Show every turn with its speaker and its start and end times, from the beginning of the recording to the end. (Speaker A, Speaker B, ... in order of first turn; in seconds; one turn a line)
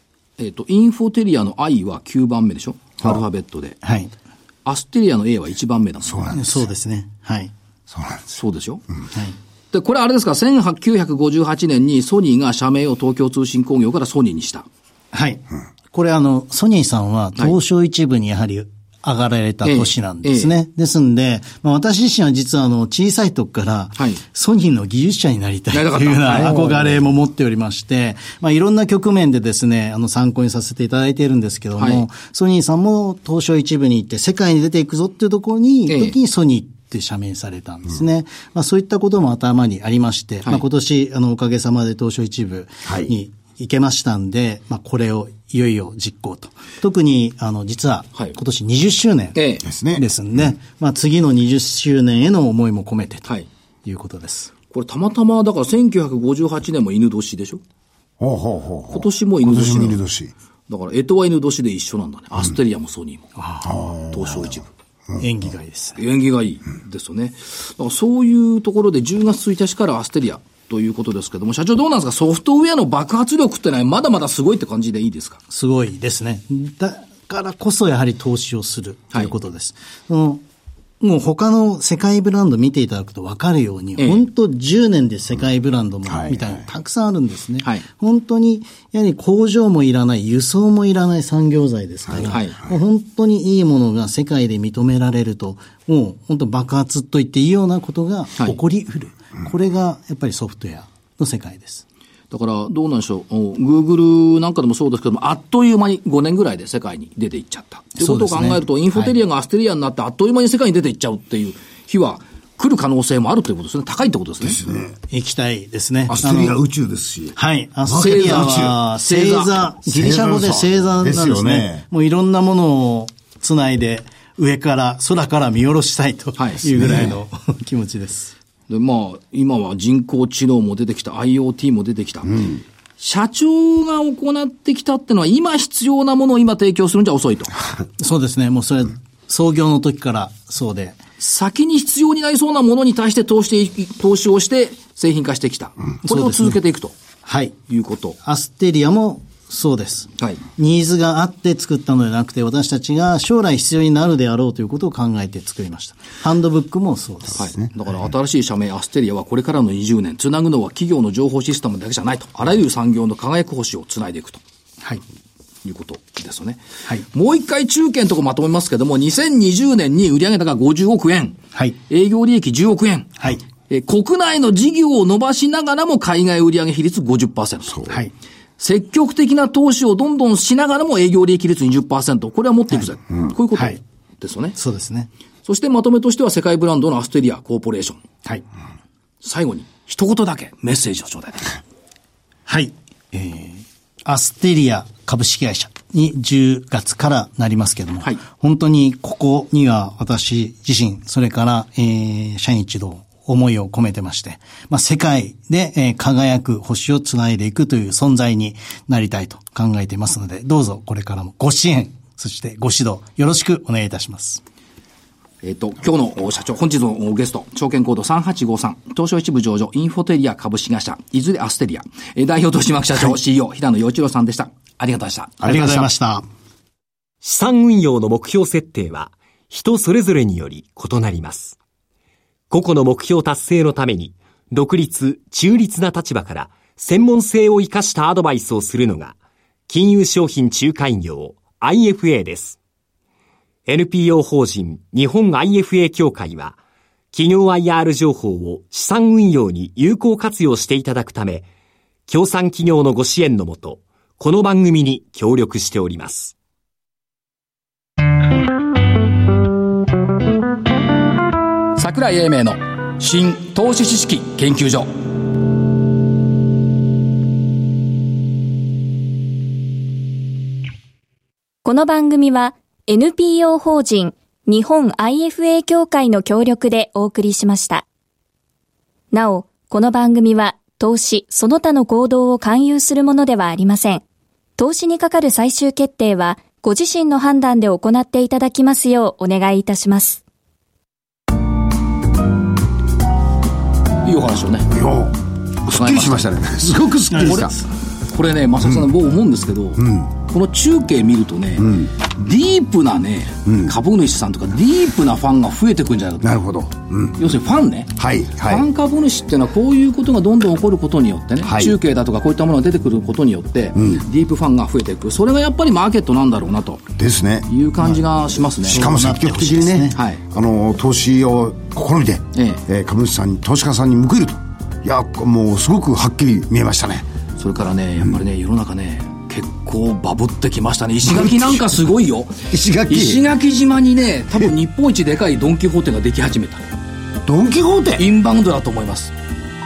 Speaker A: 0.4-3.8
Speaker B: 3.8-4.1
Speaker A: 4.6-6.3
Speaker C: 6.0-6.6
Speaker B: 6.3-7.5
Speaker C: 7.9-8.2
Speaker A: 8.3-8.8
Speaker A: 9.7-14.7
Speaker B: 15.1-49.4
Speaker A: 19.6-20.5
Speaker A: 23.9-24.2
Speaker A: 25.7-26.9
Speaker A: 31.8-32.0
Speaker A: 35.9-36.1
Speaker C: 42.9-43.1
Speaker A: 49.3-49.6
Speaker C: 49.6-50.0
Speaker B: 49.9-53.3
Speaker B: 53.8-54.5
Speaker A: 54.7-57.6
Speaker C: 58.2-60.3
Speaker A: 58.9-60.0
Speaker A: 60.7-63.3
Speaker B: 63.4-63.8
Speaker C: 63.6-64.2
Speaker A: 64.1-64.6
Speaker B: 65.2-66.0
Speaker A: 66.0-75.4
Speaker B: 75.5-80.4
Speaker B: 81.0-101.8
Speaker A: 84.0-84.2
Speaker C: 86.1-86.5
Speaker A: 92.2-92.5
Speaker A: 102.3-114.6
Speaker B: 108.0-109.1
Speaker C: 114.4-115.0
Speaker B: 115.1-116.6
Speaker C: 116.1-118.7
Speaker B: 117.3-128.3
Speaker A: 118.0-119.7
Speaker C: 119.9-121.8
Speaker A: 126.3-127.1
Speaker C: 126.8-127.1
Speaker A: 128.7-137.5
Speaker B: 138.0-141.0
Speaker A: 141.2-146.9
Speaker B: 146.0-146.6
Speaker B: 147.2-147.6
Speaker A: 147.7-148.2
Speaker B: 148.2-157.4
Speaker A: 157.3-164.4
Speaker C: 157.4-157.7
Speaker A: 165.6-166.6
Speaker A: 167.1-173.1
Speaker A: 173.7-177.9
Speaker A: 178.6-184.6
Speaker B: 183.5-183.8
Speaker B: 184.6-185.1
Speaker A: 185.4-188.0
Speaker A: 189.2-191.6
Speaker B: 192.5-214.4
Speaker A: 215.4-225.9
Speaker B: 225.4-226.2
Speaker D: 227.2-231.6
Speaker D: 232.5-239.1
Speaker D: 239.7-242.6
Speaker D: 243.7-246.6
Speaker D: 247.1-251.4
Speaker D: 252.1-256.3
Speaker A: 261.8-264.9
Speaker E: 271.6-277.8
Speaker E: 279.1-284.0
Speaker E: 284.6-290.2
Speaker A: 294.0-294.7
Speaker C: 294.7-297.5
Speaker A: 295.7-296.3
Speaker B: 297.1-297.6
Speaker A: 297.1-306.4
Speaker C: 299.8-300.1
Speaker C: 301.6-301.9
Speaker C: 303.4-303.7
Speaker C: 306.2-307.3
Speaker A: 307.2-316.9
Speaker C: 307.9-308.6
Speaker C: 311.4-311.8
Speaker C: 313.8-314.0
Speaker C: 316.9-317.5
Speaker A: 317.5-318.9
Speaker B: 318.6-320.0
Speaker C: 318.7-327.1
Speaker A: 319.9-320.2
Speaker A: 322.3-322.6
Speaker A: 327.4-336.6
Speaker C: 331.0-331.6
Speaker C: 332.5-333.2
Speaker C: 337.2-338.1
Speaker A: 338.0-339.1